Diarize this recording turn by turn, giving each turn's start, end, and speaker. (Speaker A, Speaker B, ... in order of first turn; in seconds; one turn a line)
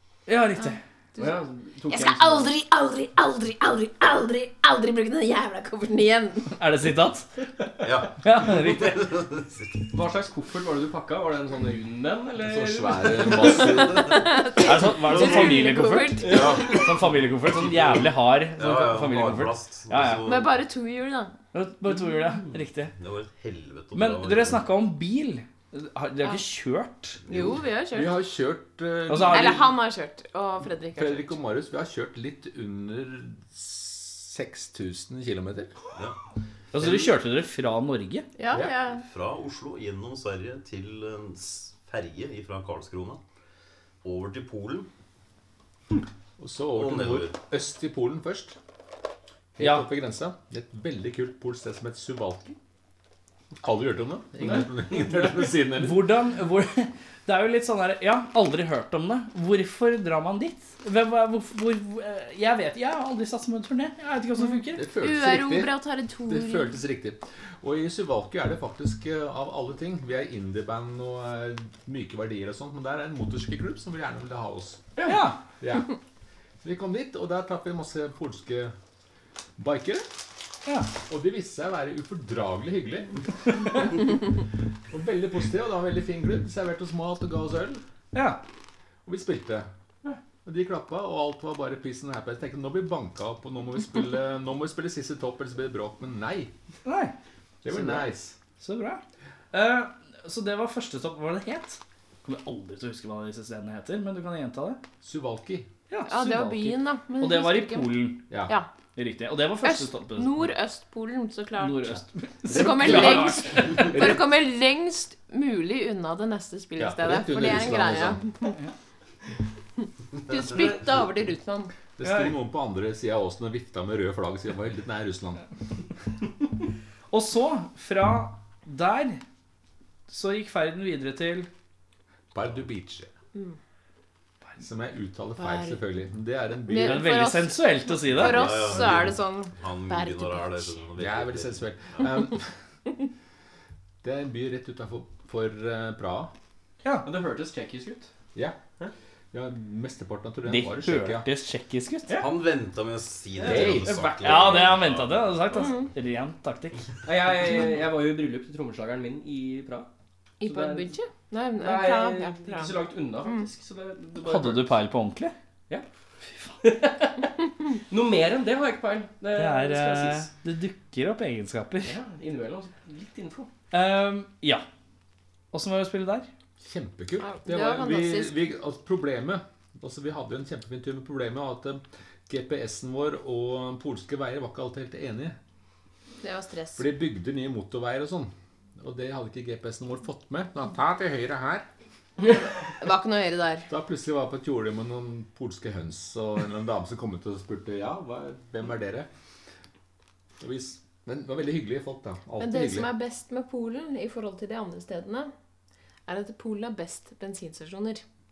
Speaker A: 0.3-0.8
Speaker B: 0.6-6.5
Speaker C: 1.2-2.5
Speaker A: 6.6-7.3
Speaker D: 7.8-9.7
Speaker A: 8.2-9.2
Speaker C: 9.9-13.5
Speaker E: 12.4-14.2
Speaker B: 14.0-16.9
Speaker A: 14.6-20.2
Speaker D: 15.1-15.6
Speaker D: 16.2-20.6
Speaker B: 20.2-21.3
Speaker A: 21.5-22.9
Speaker D: 23.0-24.7
Speaker A: 23.9-27.2
Speaker D: 27.2-27.6
Speaker B: 27.3-28.2
Speaker E: 27.9-29.8
Speaker A: 29.1-29.6
Speaker B: 29.2-31.4
Speaker E: 30.9-35.7
Speaker A: 36.7-38.3
Speaker D: 36.8-37.1
Speaker B: 38.4-39.0
Speaker E: 38.5-38.8
Speaker D: 39.0-43.2
Speaker D: 44.0-44.9
Speaker E: 46.4-48.6
Speaker D: 46.7-47.4
Speaker E: 49.6-52.6
Speaker A: 49.6-49.9
Speaker E: 53.6-56.1
Speaker A: 55.8-64.8
Speaker E: 64.8-74.9
Speaker B: 65.0-66.8
Speaker A: 75.0-75.4
Speaker E: 75.6-76.0
Speaker E: 76.6-78.7
Speaker E: 79.6-80.1
Speaker E: 81.1-84.2
Speaker E: 84.9-87.8
Speaker A: 88.1-88.4
Speaker E: 89.1-89.7
Speaker E: 90.4-96.5
Speaker A: 96.8-97.2
Speaker E: 97.6-98.3
Speaker A: 97.7-98.0
Speaker A: 98.6-104.8
Speaker E: 105.0-105.7
Speaker A: 105.9-108.2
Speaker B: 106.1-108.7
Speaker E: 108.3-108.6
Speaker A: 109.0-110.5
Speaker B: 109.6-118.6
Speaker A: 111.6-114.1
Speaker E: 112.5-114.2
Speaker E: 116.8-118.2
Speaker A: 118.5-118.7
Speaker B: 120.3-121.7
Speaker E: 122.0-125.4
Speaker A: 122.0-122.4
Speaker A: 127.1-129.2
Speaker A: 130.1-131.5
Speaker E: 132.3-133.1
Speaker E: 134.6-137.1
Speaker B: 135.4-135.8
Speaker B: 136.7-140.8
Speaker A: 136.8-138.7
Speaker D: 138.1-141.7
Speaker E: 141.0-142.5
Speaker E: 144.0-146.3
Speaker C: 147.0-148.1
Speaker E: 149.3-151.3
Speaker A: 150.4-152.2
Speaker C: 152.1-152.3
Speaker D: 152.2-155.4
Speaker C: 153.4-154.4
Speaker E: 153.4-154.0
Speaker A: 154.2-156.8
Speaker B: 155.6-155.9
Speaker C: 157.0-159.9
Speaker B: 160.4-163.4
Speaker C: 160.4-160.9
Speaker C: 161.6-164.7
Speaker A: 164.2-165.3
Speaker C: 166.6-167.2
Speaker C: 167.9-170.3
Speaker A: 169.3-172.0
Speaker C: 171.8-173.5
Speaker A: 173.7-174.7
Speaker A: 175.5-176.3
Speaker E: 176.6-185.4
Speaker B: 177.2-178.3
Speaker B: 186.2-186.9
Speaker E: 186.8-191.7
Speaker B: 192.8-193.7
Speaker E: 193.7-199.1
Speaker E: 200.4-202.9
Speaker B: 202.4-205.3
Speaker B: 206.1-208.0